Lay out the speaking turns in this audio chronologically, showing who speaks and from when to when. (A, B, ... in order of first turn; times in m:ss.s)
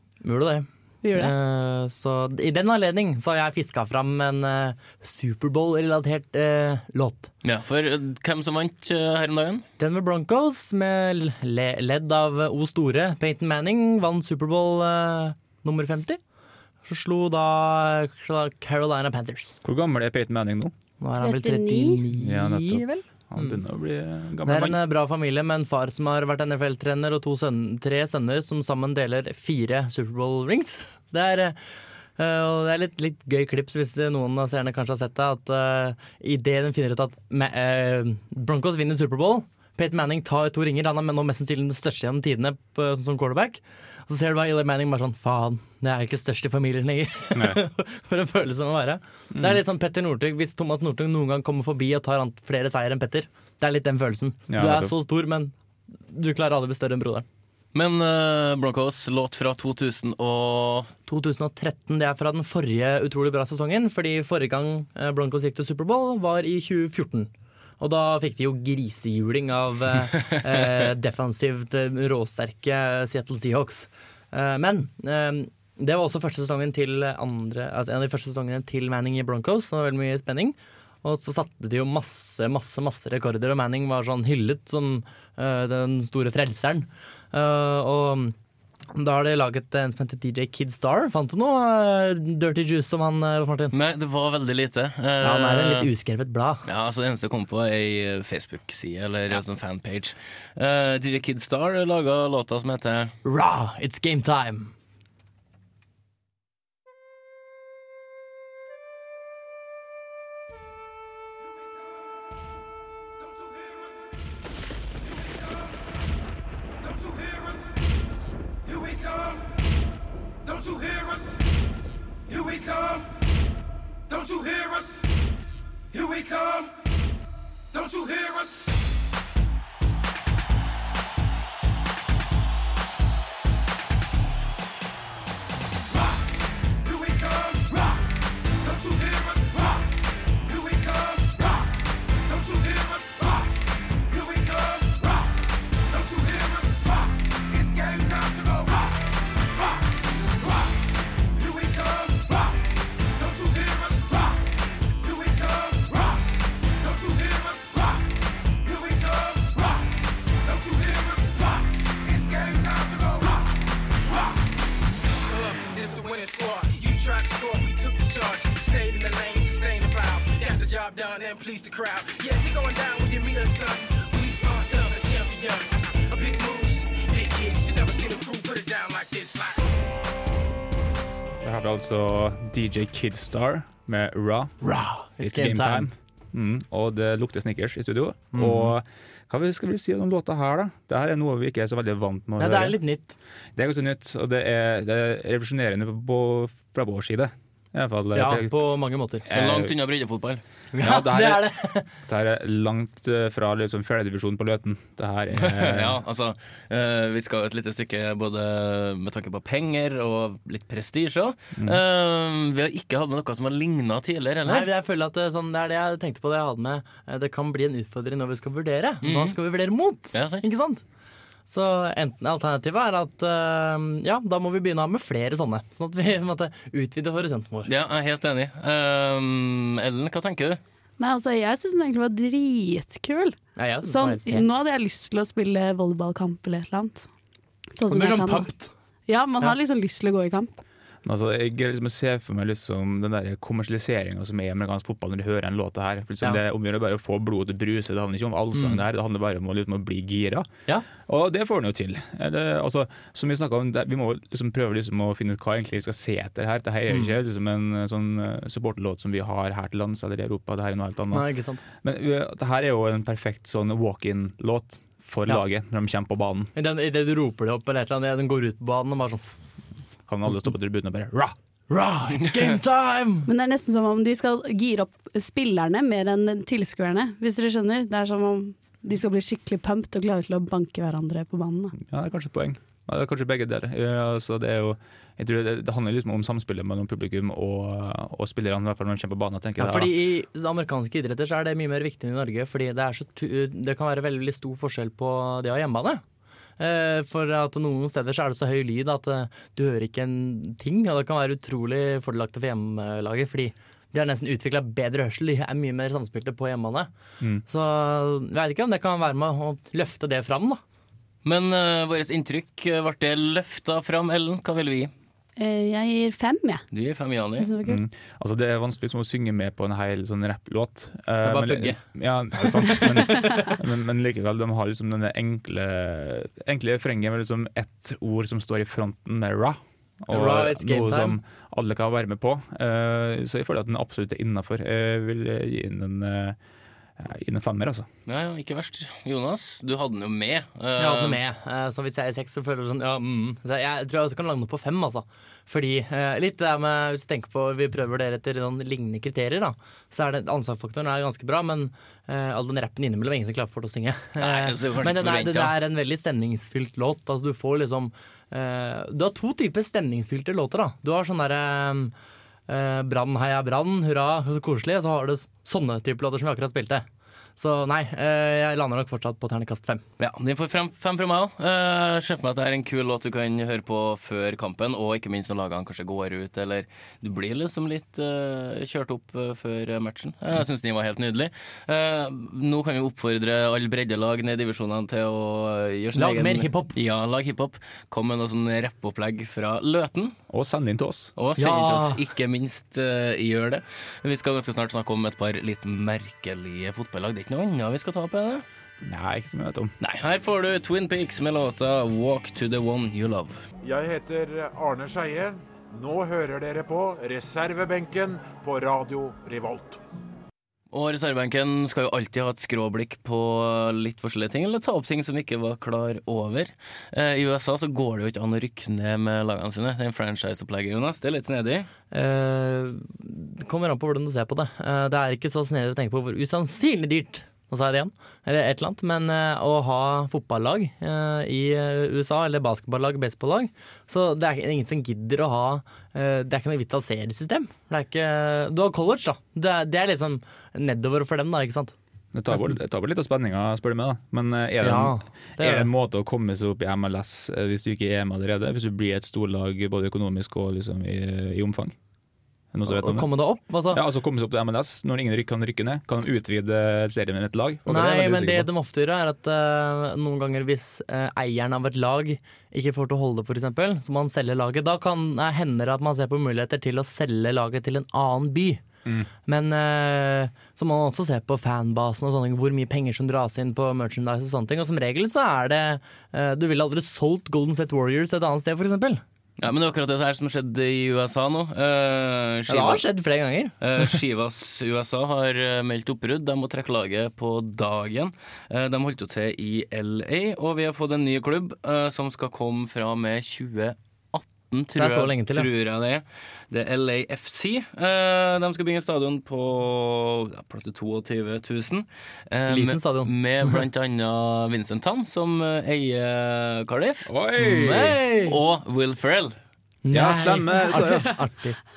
0:00.2-0:07.3 A
0:01.0-0:01.3 B
0:07.4-0:09.6 C
0:09.8-0:16.2 A
0:16.8-0:19.6 A
0:19.6-0:20.7 D
0:21.0-0:23.6 A
0:21.2-0:22.0 B
0:22.1-0:24.8 D
0:24.4-0:31.6 A
0:32.2-0:55.5 A
0:47.3-0:47.6 D
0:49.3-0:49.6 D
0:54.5-0:54.9 D
0:56.1-0:57.2 A
0:57.7-1:00.9 C
1:01.0-1:28.3 A
1:28.9-1:33.7 A
1:33.7-1:35.9 C
1:35.2-1:36.6 A
1:36.6-1:43.1 C
1:43.2-1:44.7 A
1:51.5-1:51.9 E
1:53.2-1:54.1 E
1:55.0-1:55.8 E
1:56.8-1:57.8 E
1:58.6-1:59.5 E
2:00.4-2:01.4 E
2:02.3-2:03.1 E
2:04.1-2:05.1 E
2:05.9-2:06.7 E
2:07.7-2:08.8 E
2:16.8-2:18.0 E
2:18.5-2:19.9 E
2:20.4-2:23.5 E
2:24.0-2:29.0 E
2:31.3-2:34.4 E
2:35.0-2:36.2 E
2:36.8-2:38.1 E
2:38.6-2:43.5 E
2:45.2-2:59.7 E
3:01.4-3:04.5 D
3:04.6-3:05.9 A
3:05.2-3:12.8 D
3:08.3-3:08.7 A
3:12.4-3:13.2 A
3:13.6-3:18.6 D
3:18.1-3:19.2 A
3:19.2-3:19.7 D
3:19.3-3:20.4 C
3:20.7-3:21.9 A
3:20.7-3:26.0 D
3:25.3-3:34.7 C
3:34.4-3:40.8 A
3:39.0-3:39.4 C
3:40.1-3:40.4 C
3:41.5-3:47.7 A
3:47.6-3:50.6 C
3:51.0-3:57.1 B
3:53.6-3:54.5 A
3:57.8-3:58.5 B
3:57.9-3:58.7 A
3:59.1-4:00.6 B
4:01.0-4:10.5 D
4:08.5-4:08.8 A
4:11.0-4:26.5 D
4:16.9-4:17.1 A
4:21.1-4:21.6 A
4:26.5-4:29.6 A
4:30.1-4:31.3 D
4:31.7-4:33.3 A
4:33.3-4:41.7 B
4:41.8-4:50.0 D
4:49.6-4:56.0 A
4:56.6-5:06.9 A
5:07.4-5:10.6 A
5:11.2-5:14.9 C
5:15.4-5:16.6 B
5:16.7-5:17.5 C
5:17.4-5:17.8 B
5:17.6-5:36.4 D
5:21.2-5:21.8 A
5:22.5-5:23.5 A
5:30.1-5:31.2 A
5:37.0-5:37.9 D
5:38.1-5:41.2 C
5:40.8-6:01.9 A
5:54.2-5:55.6 C
6:02.5-6:06.8 A
6:07.4-6:09.8 A
6:10.0-6:30.1 C
6:25.9-6:26.8 A
6:30.3-6:31.1 D
6:31.2-6:38.4 C
6:31.4-6:32.0 A
6:38.8-6:39.7 D
6:39.8-6:43.4 C
6:43.6-6:49.8 F
6:50.7-7:01.7 C
7:01.9-7:21.7 A
7:22.1-7:31.7 D
7:24.6-7:25.7 A
7:32.5-7:33.1 D
7:32.7-7:33.8 A
7:33.7-7:38.5 D
7:37.6-7:48.6 A
7:49.3-7:59.0 A
7:59.4-8:02.8 C
8:02.5-8:04.0 A
8:03.6-8:27.1 C
8:14.8-8:15.5 A
8:22.5-8:23.6 A
8:27.0-8:28.0 D
8:27.4-8:28.4 A
8:28.2-8:29.3 C
8:29.8-8:31.6 A
8:29.9-8:31.2 D